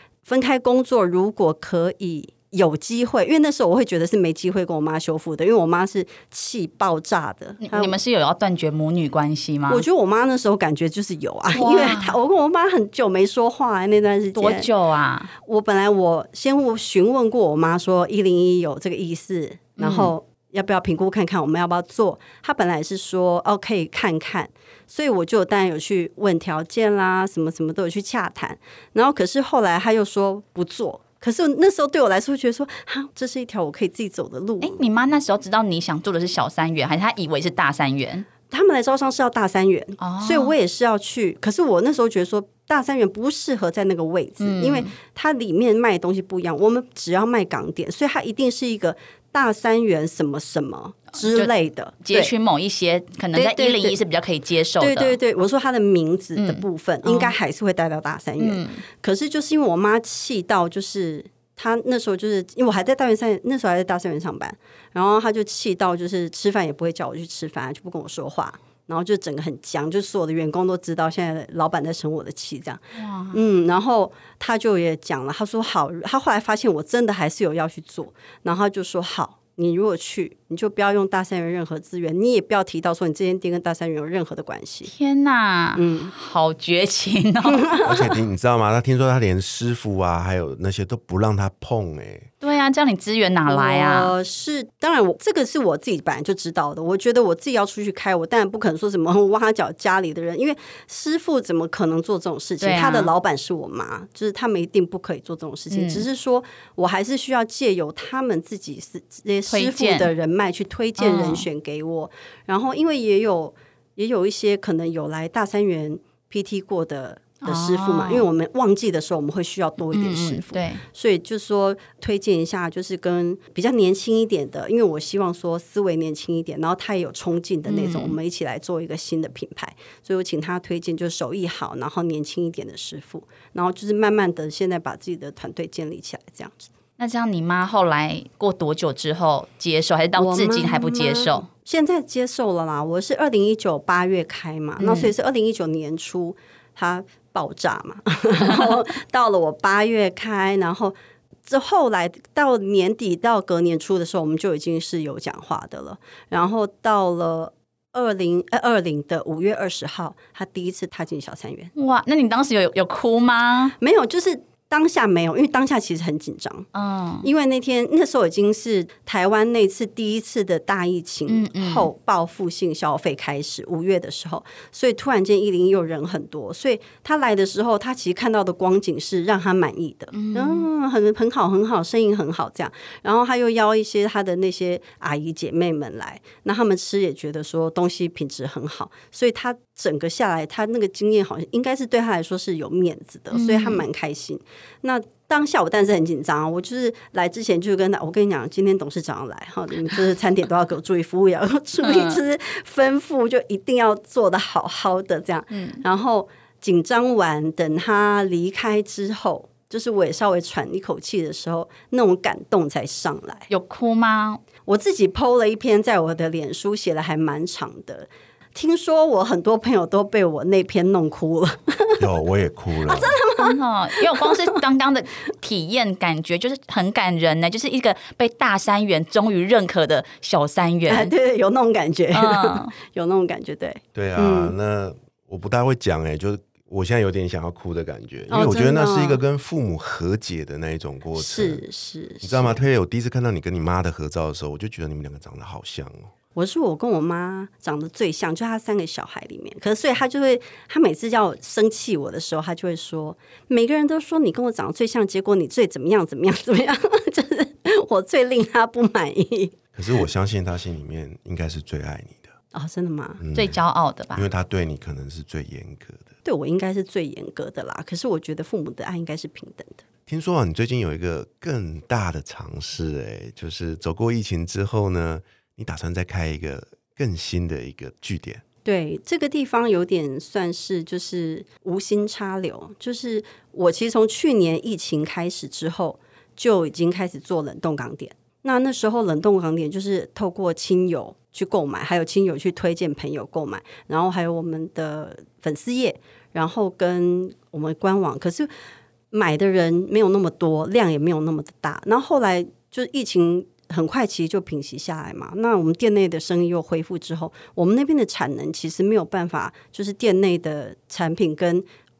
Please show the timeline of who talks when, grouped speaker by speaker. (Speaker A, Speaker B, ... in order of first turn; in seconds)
Speaker A: 0.2-8.0, 9.7-14.7, 15.4-34.8, 38.5-52.3, 53.3-54.0, 54.8-84.9, 85.8-86.1, 87.5-88.1, 93.5-136.7, 140.1-161.7, 163.8-166.7, 167.2-213.5, 214.7-222.0, 222.8-224.6, 230.9-234.6, 238.3-239.2, 241.2-242.6, 246.3-259.6, 262.5-263.2, 266.2-269.8, 278.6-298.5, 299.1-311.6
Speaker B: 7.6-9.8, 11.5-12.2, 14.3-15.3, 19.8-20.1, 34.6-38.3, 40.0-40.5, 44.4-44.9, 51.2-51.5, 52.0-55.2, 56.4-57.4, 58.4-58.8, 73.0-73.4, 84.8-87.7, 92.4-94.1, 102.6-103.1, 105.7-106.0, 109.5-110.1, 111.0-111.5, 117.4-118.2, 119.9-120.8, 127.7-128.2, 137.0-141.4, 144.8-145.1, 161.7-163.7, 166.7-167.3, 171.3-171.9, 180.1-180.7, 193.3-193.8, 201.8-202.2, 205.5-205.8, 213.5-214.4, 223.4-231.1, 232.1-232.7, 263.3-264.3
Speaker C: 87.8-92.3, 222.0-223.2, 233.9-241.6, 242.2-246.1, 259.7-262.3, 263.2-263.6, 264.1-266.1, 270.1-278.4